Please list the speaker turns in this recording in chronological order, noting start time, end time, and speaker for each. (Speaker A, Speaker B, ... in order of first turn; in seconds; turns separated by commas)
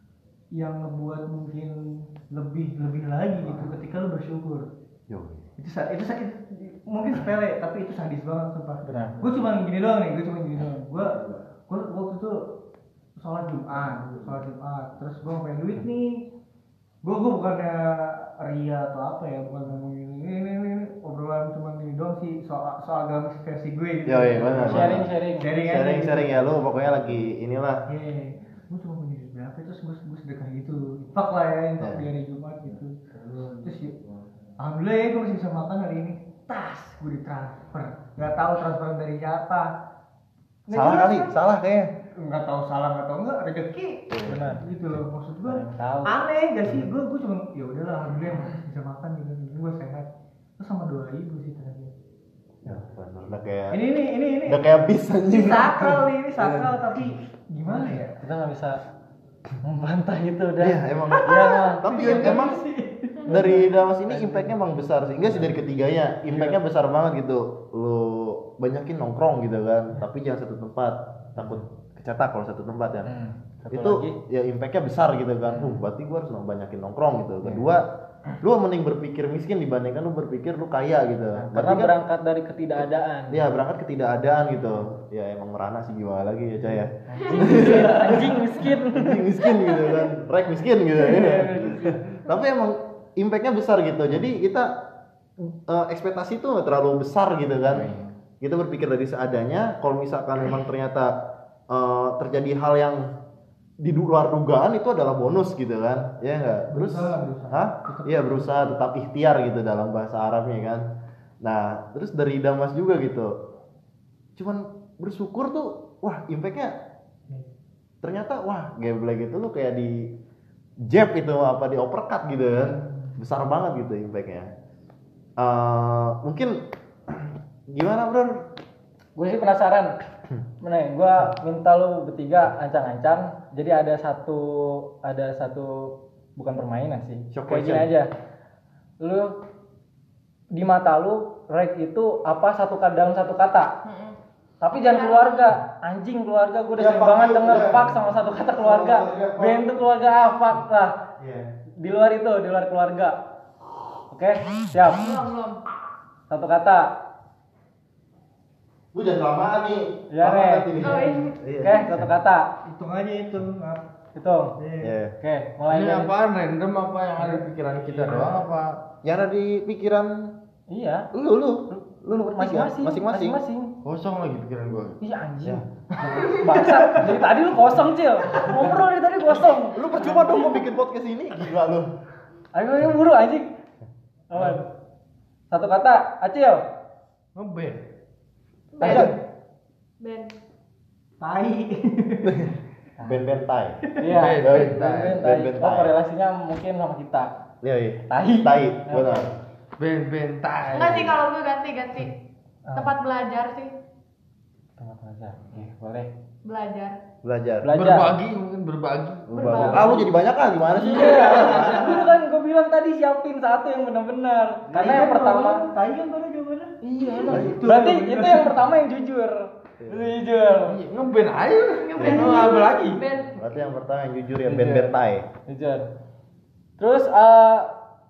Speaker A: 0.5-1.7, Speaker A: 2.3-4.7, Speaker B: 5.1-5.5, Speaker A: 5.6-12.3, Speaker C: 8.8-9.3, Speaker A: 13.2-16.2, Speaker A: 17.0-24.9, Speaker B: 24.1-25.1, Speaker C: 24.6-25.5, Speaker A: 25.4-26.4, Speaker B: 25.6-27.8, Speaker A: 27.9-33.0, Speaker B: 31.8-32.0, Speaker A: 33.6-33.9, Speaker A: 34.6-39.7, Speaker A: 40.7-41.3, Speaker B: 40.7-41.9, Speaker A: 42.2-44.1, Speaker B: 44.1-44.6, Speaker C: 44.2-44.6, Speaker A: 44.6-51.9, Speaker C: 45.5-46.2, Speaker B: 52.6-53.8, Speaker A: 53.7-54.6, Speaker B: 54.5-56.7, Speaker A: 55.3-58.1, Speaker C: 57.7-58.8, Speaker C: 59.6-62.4, Speaker B: 60.6-62.6, Speaker A: 61.2-63.6, Speaker B: 63.3-73.1, Speaker C: 64.1-64.5, Speaker C: 66.3-66.6, Speaker C: 73.0-74.1, Speaker B: 73.7-77.8, Speaker C: 75.5-75.8, Speaker C: 77.4-77.7, Speaker B: 78.4-81.9, Speaker C: 81.3-83.4, Speaker B: 83.3-94.7, Speaker C: 87.1-89.2, Speaker C: 91.0-92.0, Speaker B: 95.4-101.1, Speaker B: 101.7-103.0, Speaker B: 103.8-110.8, Speaker A: 106.7-108.4, Speaker B: 111.4-113.3, Speaker B: 114.4-116.7, Speaker B: 118.0-120.1, Speaker B: 120.9-124.5, Speaker B: 125.4-126.6, Speaker B: 127.1-128.4, Speaker C: 129.2-129.9, Speaker C: 130.6-138.1, Speaker B: 137.3-137.9, Speaker C: 139.0-139.3, Speaker C: 140.5-143.7, Speaker D: 143.8-144.2, Speaker C: 144.6-150.9, Speaker D: 144.7-145.5, Speaker B: 146.8-149.7, Speaker B: 151.2-151.5, Speaker C: 151.8-153.2, Speaker C: 154.1-155.0, Speaker D: 154.9-155.6, Speaker C: 156.3-156.8, Speaker B: 158.9-162.1, Speaker C: 160.1-161.1, Speaker D: 160.8-161.8, Speaker C: 161.6-162.4, Speaker A: 162.6-163.8, Speaker C: 164.1-164.5, Speaker A: 164.6-164.9, Speaker B: 164.8-165.1, Speaker C: 165.2-166.1, Speaker E: 165.7-168.8, Speaker C: 167.2-168.3, Speaker B: 169.0-170.3, Speaker C: 170.7-171.1, Speaker B: 171.1-173.4, Speaker C: 172.2-173.7, Speaker E: 173.8-175.0, Speaker C: 175.0-180.6, Speaker B: 179.7-181.9, Speaker C: 182.5-183.5, Speaker C: 184.3-184.7, Speaker C: 185.5-186.6, Speaker E: 187.3-187.8, Speaker D: 188.7-189.2, Speaker C: 188.8-189.1, Speaker B: 188.8-189.1, Speaker D: 190.0-190.3, Speaker A: 191.2-192.3, Speaker B: 192.3-192.5, Speaker B: 193.0-193.8, Speaker C: 194.0-197.3, Speaker E: 194.1-195.2, Speaker B: 194.4-196.0, Speaker B: 197.6-199.4, Speaker C: 198.1-199.3, Speaker E: 199.8-201.2, Speaker D: 200.6-202.1, Speaker C: 202.7-202.9, Speaker D: 202.7-203.7, Speaker C: 204.8-206.1, Speaker D: 206.4-207.0, Speaker B: 207.2-207.7, Speaker C: 207.6-208.1, Speaker E: 207.7-210.0, Speaker B: 209.3-212.0, Speaker D: 209.3-210.1, Speaker C: 209.4-209.8, Speaker E: 210.7-212.1, Speaker C: 210.8-215.7, Speaker A: 214.7-216.7, Speaker C: 216.8-220.8, Speaker E: 216.8-217.5, Speaker B: 217.3-217.7, Speaker A: 217.3-218.6, Speaker B: 219.8-220.1, Speaker E: 220.7-223.0, Speaker D: 221.7-223.5, Speaker B: 222.0-222.3, Speaker B: 223.4-225.3, Speaker C: 224.4-224.9, Speaker C: 225.5-225.8, Speaker C: 226.8-227.7